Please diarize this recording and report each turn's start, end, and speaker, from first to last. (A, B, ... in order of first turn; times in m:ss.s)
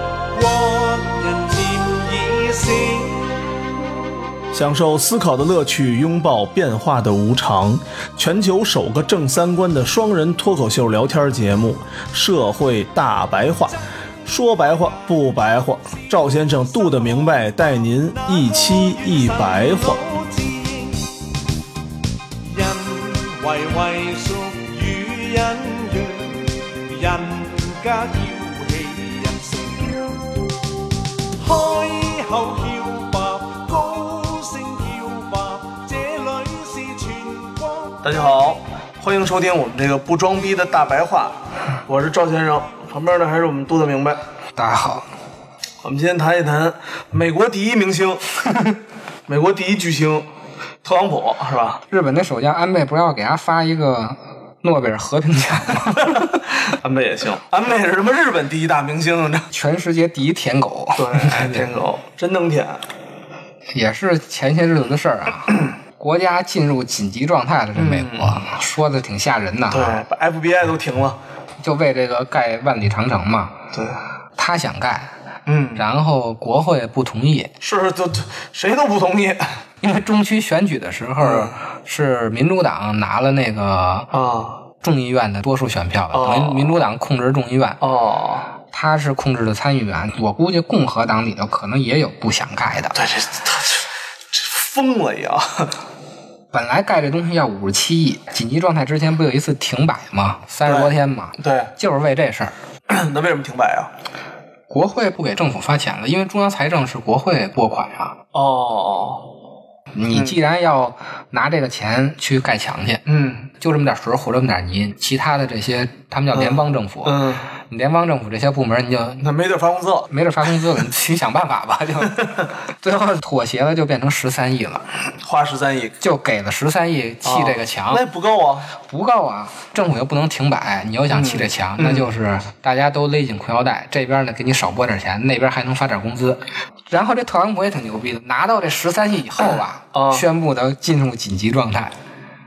0:00.3-0:03.3 A
0:04.5-0:20.0 B
0:14.4-0:21.1 A
0:22.4-0:30.1 A
0:31.4-0:38.4 A
0:38.0-0:44.2 B
0:44.6-0:45.1 C
0:45.8-0:48.2 B
0:49.3-0:50.3 B
0:50.8-0:51.8 B
0:51.9-0:56.3 C
0:56.0-0:59.5 B
0:59.5-1:01.7 C
1:01.0-1:02.8 B
1:03.7-1:10.0 C
1:07.7-1:08.4 B
1:09.7-1:11.2 B
1:11.6-1:13.6 C
1:13.7-1:14.0 B
1:14.4-1:15.1 C
1:15.4-1:15.8 B
1:15.7-1:17.5 C
1:17.6-1:19.6 B
1:19.8-1:24.1 C
1:21.2-1:21.6 B
1:24.1-1:24.6 B
1:24.8-1:27.8 C
1:26.1-1:26.8 B
1:27.8-1:28.5 B
1:28.7-1:33.0 C
1:32.9-1:35.8 B
1:36.5-1:42.5 C
1:40.6-1:41.7 B
1:42.9-1:43.9 B
1:44.7-1:48.2 C
1:48.3-1:49.3 B
1:49.9-1:59.3 C
1:50.1-1:50.4 B
1:53.0-1:53.5 B
1:56.3-1:57.5 B
1:59.2-2:00.1 B
2:00.1-2:04.8 C
2:05.2-2:06.0 B
2:06.0-2:08.0 C
2:07.2-2:08.7 B
2:08.8-2:22.0 C
2:11.1-2:12.1 B
2:19.9-2:20.2 B